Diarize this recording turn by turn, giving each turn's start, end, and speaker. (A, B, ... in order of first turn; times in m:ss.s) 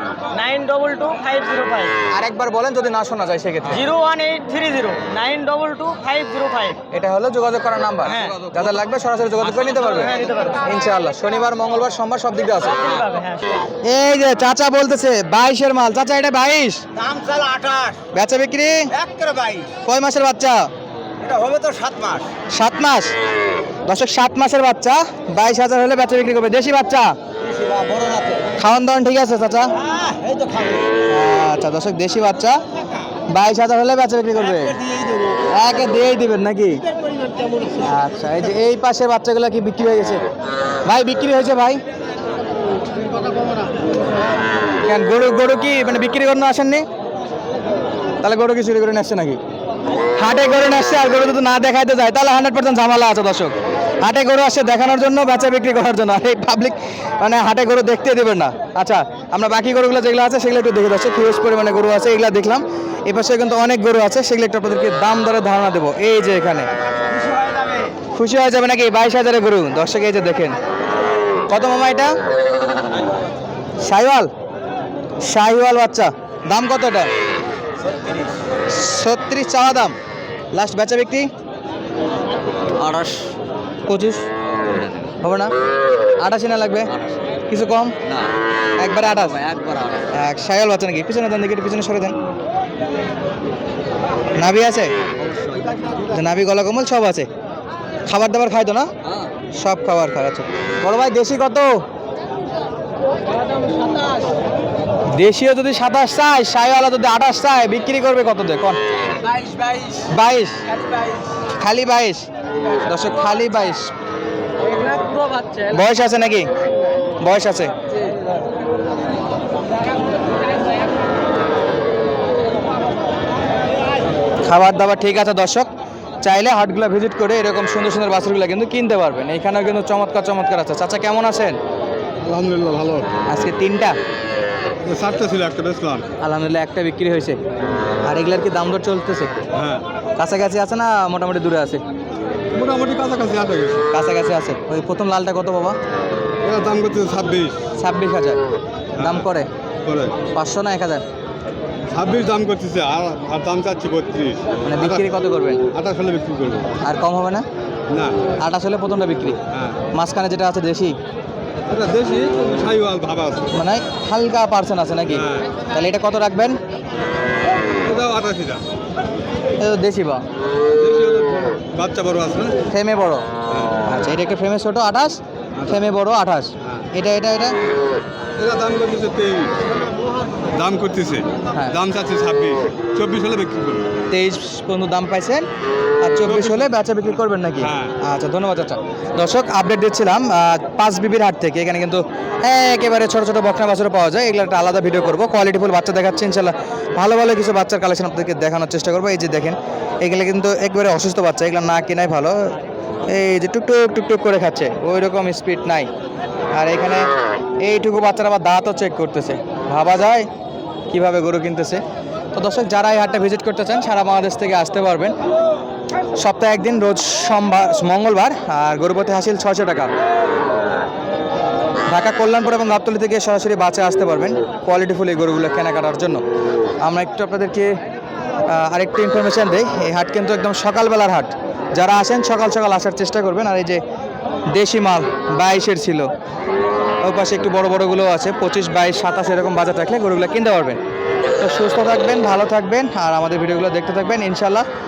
0:00.3-0:01.9 A
0:02.1-0:03.8 B
0:03.7-0:06.8 A
0:06.9-0:12.8 B
0:08.0-0:08.4 A
0:08.1-0:08.8 C
0:09.4-0:10.3 C
0:09.9-0:10.6 A
0:12.6-0:13.7 A
0:13.8-0:16.8 B
0:17.0-0:18.0 C
0:18.1-0:18.9 B
0:19.0-0:19.7 C
0:19.8-0:20.7 B
0:21.2-0:22.3 C
0:22.5-0:23.1 B
0:23.8-0:27.2 B
0:27.5-0:28.4 C
0:28.6-0:29.7 B
0:29.9-0:30.8 C
0:31.1-0:32.6 B
0:33.3-0:34.8 B
0:34.5-0:35.3 C
0:35.5-0:36.8 B
0:37.8-0:40.2 B
0:40.8-0:41.8 B
0:44.8-0:46.8 B
0:48.2-0:49.4 B
0:50.2-1:06.7 B
1:08.1-1:10.6 B
1:11.5-1:12.2 B
1:13.8-1:14.3 B
1:15.2-1:17.1 B
1:18.7-1:19.9 B
1:20.5-1:21.3 B
1:22.8-1:23.3 C
1:23.8-1:24.2 B
1:24.5-1:25.0 C
1:25.2-1:25.5 B
1:26.2-1:26.9 B
1:26.9-1:27.2 C
1:27.5-1:28.0 B
1:28.0-1:28.3 C
1:28.8-1:29.4 B
1:29.0-1:30.1 C
1:30.1-1:32.2 B
1:34.4-1:34.9 B
1:35.2-1:35.7 C
1:36.1-1:37.3 B
1:38.0-1:38.9 B
1:39.6-1:41.8 B
1:45.1-1:48.8 B
1:49.2-1:50.0 C
1:50.1-1:50.6 B
1:51.6-1:53.9 B
1:54.6-1:55.7 A
1:55.7-1:56.5 B
1:57.2-1:57.7 B
2:04.4-2:05.7 B
2:06.2-2:11.6 B
2:12.2-2:13.1 D
2:13.3-2:14.0 B
2:14.8-2:16.1 D
2:16.2-2:17.4 B
2:18.0-2:19.3 B
2:19.5-2:19.8 D
2:20.2-2:21.8 B
2:22.5-2:23.9 D
2:23.9-2:25.8 B
2:26.4-2:27.7 D
2:27.8-2:28.4 B
2:29.0-2:29.3 D
2:29.0-2:29.5 B
2:29.8-2:30.2 D
2:30.3-2:31.0 B
2:31.9-2:35.0 D
2:34.6-2:35.6 B
2:35.7-2:36.8 D
2:36.8-2:37.4 B
2:37.9-2:38.2 D
2:38.4-2:39.4 B
2:39.5-2:39.8 D
2:39.9-2:41.0 B
2:41.7-2:43.5 D
2:43.5-2:46.6 B
2:45.1-2:45.5 D
2:47.8-2:48.6 D
2:49.6-2:50.2 B
2:50.7-2:52.6 D
2:52.7-2:53.2 B
2:53.5-2:53.7 D
2:53.8-2:57.6 B
2:58.4-2:59.7 D
3:00.5-3:03.9 D
3:04.1-3:05.5 B
3:06.0-3:25.9 B
3:06.2-3:06.7 D
3:07.6-3:08.0 D
3:26.5-3:27.0 B
3:27.6-3:30.3 B
3:30.9-3:31.8 B
3:32.3-3:35.1 B
3:36.2-3:39.9 B
3:41.9-3:46.2 B
3:46.8-3:47.7 B
3:48.4-3:53.8 B
3:54.5-3:56.1 B
3:57.0-4:00.8 B
4:01.4-4:04.6 B